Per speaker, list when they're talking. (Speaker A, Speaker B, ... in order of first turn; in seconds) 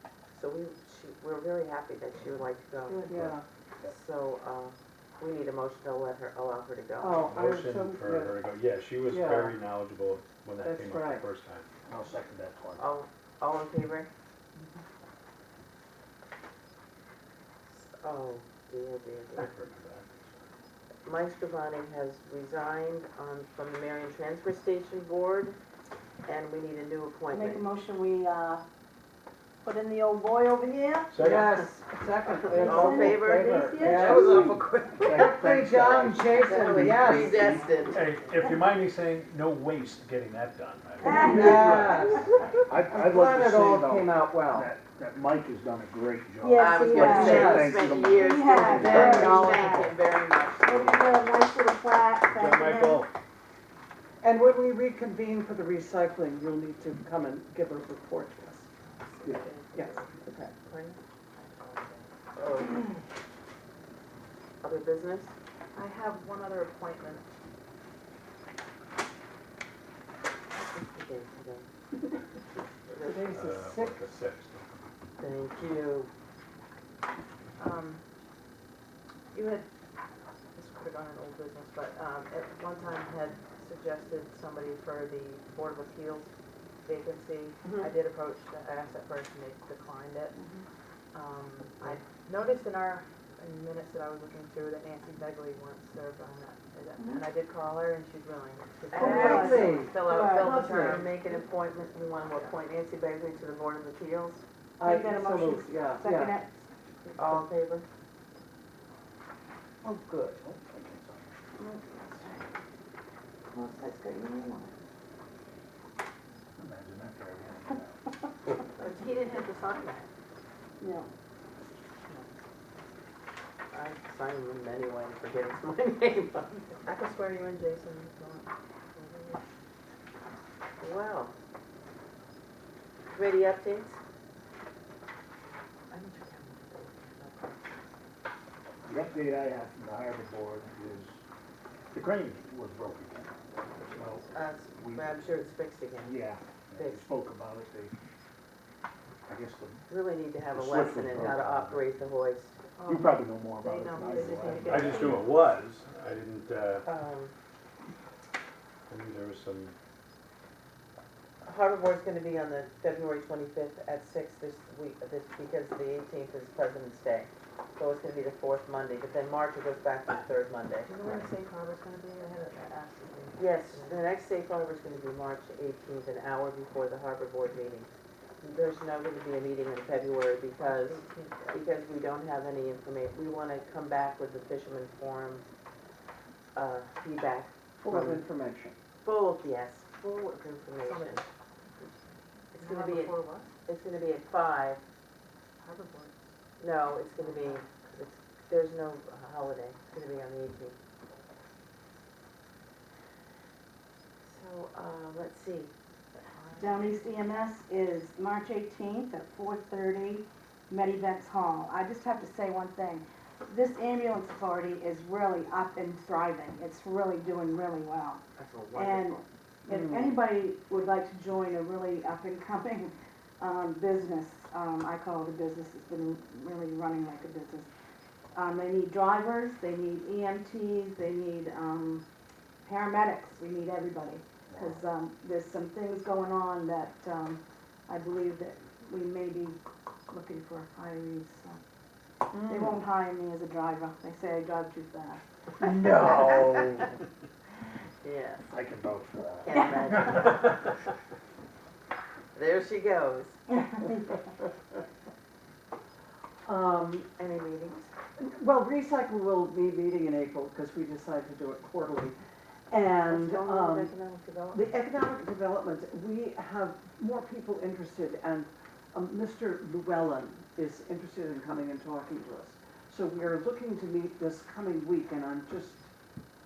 Speaker A: 0.3-3.0, 3.8-7.2, 12.8-14.1, 17.7-19.5, 21.0-25.6, 26.2-27.6, 32.5-38.0, 46.6-51.3, 59.0-61.0, 62.3-63.0, 64.6-65.3, 70.5-71.7, 72.9-73.4, 75.2-76.1, 98.9-104.4, 107.2-107.8, 123.7-126.7, 130.8-131.3, 133.1-134.0, 135.9-137.7, 144.3-146.2, 146.8-147.0, 149.9-152.6, 156.8-157.3, 161.4-171.2, 173.4-185.4, 186.5-188.2, 189.0-191.2, 192.5-193.1, 193.6-194.8, 196.6-200.8, 204.2-205.7, 218.3-219.2, 245.8-246.8, 248.0-248.4, 249.4-250.6, 252.3-253.4, 257.2-257.9, 263.1-264.6
Speaker B: 2.9-3.3, 27.3-28.6, 29.6-31.1, 32.5-34.5, 41.0-42.2, 46.4-50.0, 50.6-53.1, 90.3-90.7, 97.0-97.2, 98.9-100.7, 104.8-107.4, 111.6-112.5, 113.5-114.7, 120.8-121.1, 206.6-227.7, 228.3-232.0, 232.6-241.6, 242.3-245.2
Speaker C: 3.1-3.4, 7.0-8.3, 9.1-9.6, 10.6-11.2, 31.2-37.7, 41.2-42.3, 42.9-44.7, 46.9-47.7, 48.8-49.9, 54.2-58.7, 59.2-60.5, 73.0-74.0, 99.0-101.1, 104.8-106.4, 109.8-110.7, 187.8-188.8, 219.7-220.2, 242.3-242.8, 256.4-257.1, 258.2-262.2, 262.7-263.9, 264.5-275.9
Speaker D: 7.2-11.7, 19.4-20.3, 31.1-31.6, 37.9-41.7, 52.2-53.1, 73.3-74.7, 154.5-156.8, 158.9-159.7
Speaker E: 11.8-12.9, 34.1-37.2, 41.2-42.1, 42.7-49.1, 110.4-111.3, 116.6-118.0, 138.8-141.2, 141.9-145.1, 146.0-147.9, 149.3-149.8, 150.5-151.9, 152.8-155.2, 234.5-234.8, 245.9-246.9, 248.5-250.0
Speaker F: 37.3-37.9, 61.3-62.1, 65.7-67.2, 77.6-78.0, 79.3-79.7, 80.5-86.3, 86.8-90.4, 91.1-101.1, 118.8-120.1, 126.7-129.4, 152.7-155.3, 170.9-174.0, 180.6-181.6, 190.8-192.0, 192.5-193.5, 195.6-196.2, 197.2-197.7, 206.3-206.9